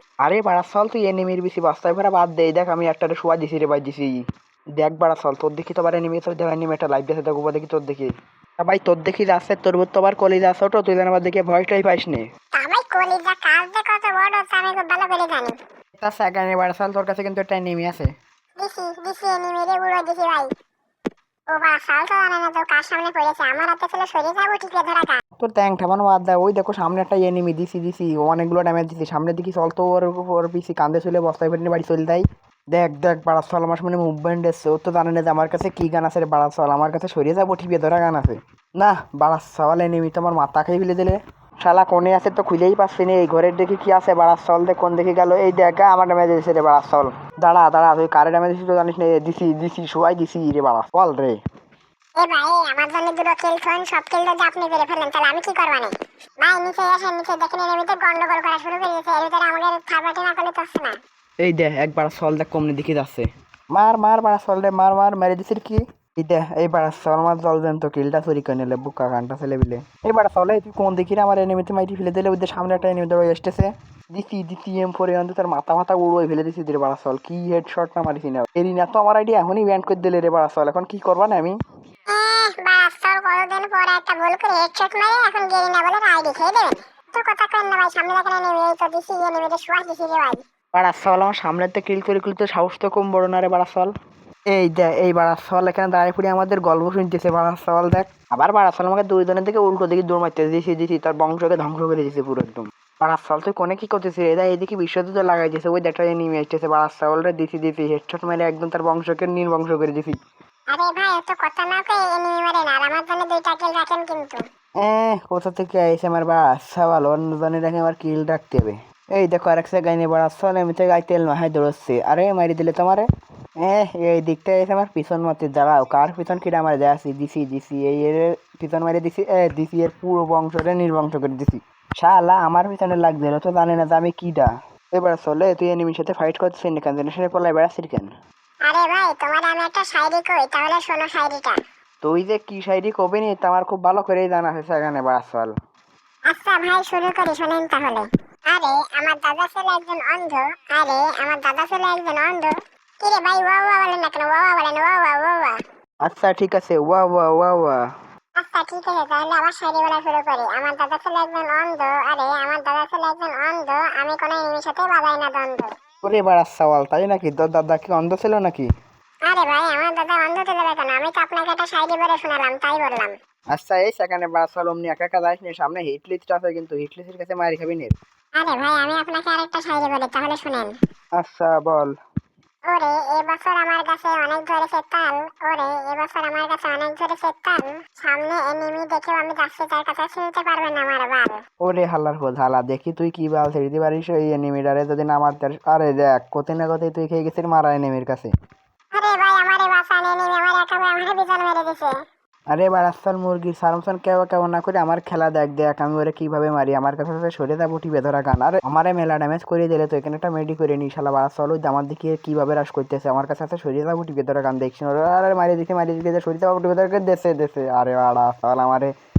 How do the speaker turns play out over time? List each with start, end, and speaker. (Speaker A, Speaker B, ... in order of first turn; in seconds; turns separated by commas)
Speaker A: 0.2-4.2, Speaker A: 4.8-12.2, Speaker B: 12.5-15.5, Speaker A: 16.0-18.1, Speaker B: 18.6-20.5, Speaker B: 21.5-25.2, Speaker A: 25.4-51.4, Speaker B: 52.2-61.0, Speaker A: 61.4-81.5, Speaker B: 82.1-90.4, Speaker A: 90.7-93.9, Speaker A: 94.5-110.2, Speaker B: 110.7-114.4, Speaker A: 114.8-123.1, Speaker A: 123.6-138.1, Speaker B: 138.7-141.6, Speaker A: 142.0-145.5, Speaker B: 146.3-155.6, Speaker A: 156.0-157.8, Speaker B: 158.4-165.7, Speaker A: 166.0-168.7, Speaker B: 169.3-173.2, Speaker A: 173.5-177.9, Speaker B: 178.4-180.7, Speaker A: 181.2-181.9, Speaker B: 182.7-191.4, Speaker A: 191.6-198.3, Speaker B: 198.9-201.9, Speaker A: 202.5-218.9